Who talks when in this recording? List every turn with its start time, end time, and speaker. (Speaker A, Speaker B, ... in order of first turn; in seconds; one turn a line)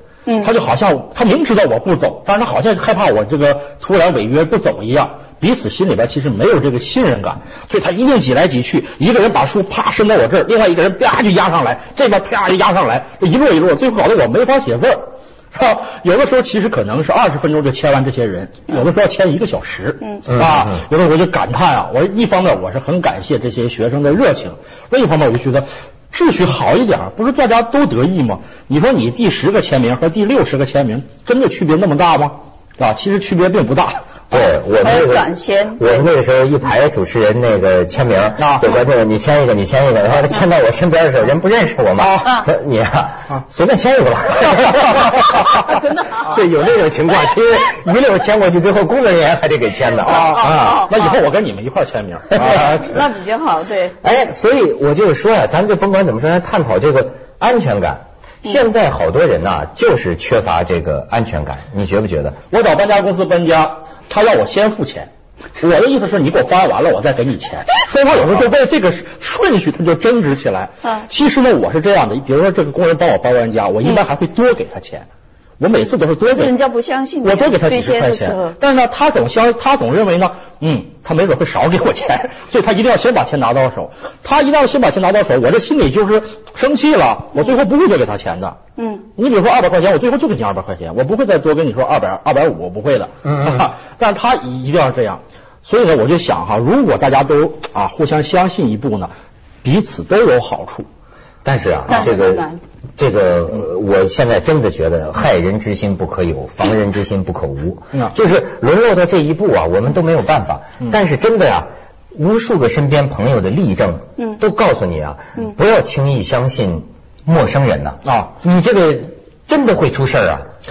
Speaker A: 0.4-34.0
Speaker B: 20.3-20.7
Speaker B: 34.3-50.5
Speaker C: 34.8-36.0
Speaker A: 38.4-38.7
Speaker A: 42.0-42.4
Speaker C: 45.7-46.3
Speaker C: 50.0-51.2
Speaker A: 50.0-52.9
Speaker B: 52.3-52.8
Speaker C: 52.4-54.0
Speaker B: 54.0-62.4
Speaker A: 62.5-75.1
Speaker A: 75.6-76.5
Speaker C: 76.3-78.5
Speaker A: 77.2-88.6
Speaker C: 88.8-89.0
Speaker A: 89.2-99.1
Speaker B: 93.2-93.7
Speaker A: 99.6-100.9
Speaker B: 101.4-120.5
Speaker C: 101.9-102.6
Speaker A: 118.0-118.3